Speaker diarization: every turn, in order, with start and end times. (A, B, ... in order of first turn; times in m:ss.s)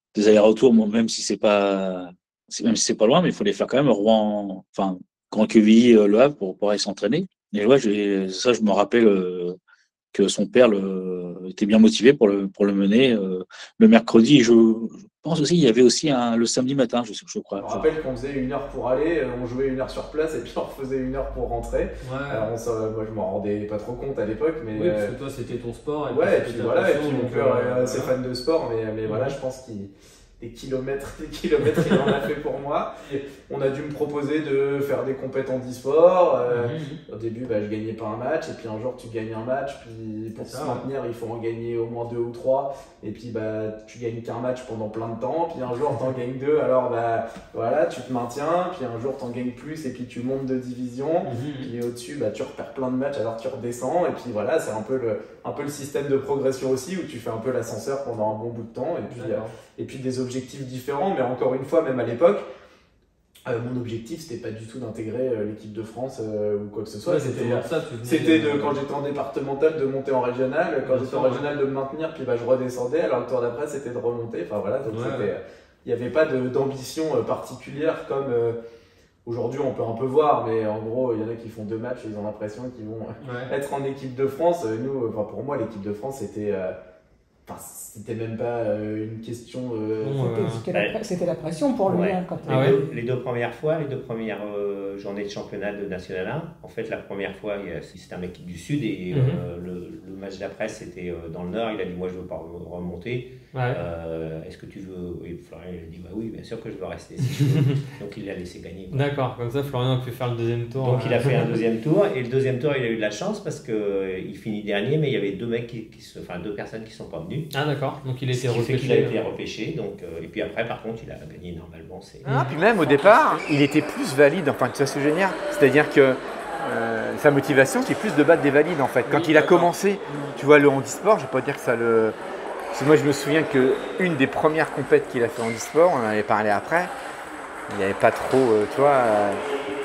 0:00.1-0:09.5 A
0:10.1-0:17.9 A
0:17.5-0:25.1 B
0:22.0-0:22.5 C
0:24.7-0:28.1 C
0:26.1-1:02.4 B
0:29.0-0:29.4 C
0:36.5-0:37.0 C
0:40.4-0:40.8 C
0:51.2-0:51.7 C
0:59.1-0:59.5 C
1:03.4-1:18.6 B
1:07.0-1:08.8 C
1:10.8-1:11.5 C
1:14.9-1:15.3 C
1:19.2-1:26.7 B
1:23.2-1:23.5 C
1:27.4-1:30.2 B
1:30.0-1:30.6 C
1:30.2-1:32.9 D
1:30.7-1:31.0 E
1:31.9-1:49.1 E
1:32.5-1:32.8 C
1:39.1-1:39.4 C
1:43.5-1:43.8 C
1:48.9-1:51.5 C
1:50.8-1:57.5 E
1:57.5-1:59.3 C
1:58.3-2:02.3 E
2:02.2-2:03.5 C
2:02.2-2:12.2 F
2:09.0-2:10.4 C
2:12.7-2:16.9 F
2:17.7-2:19.4 F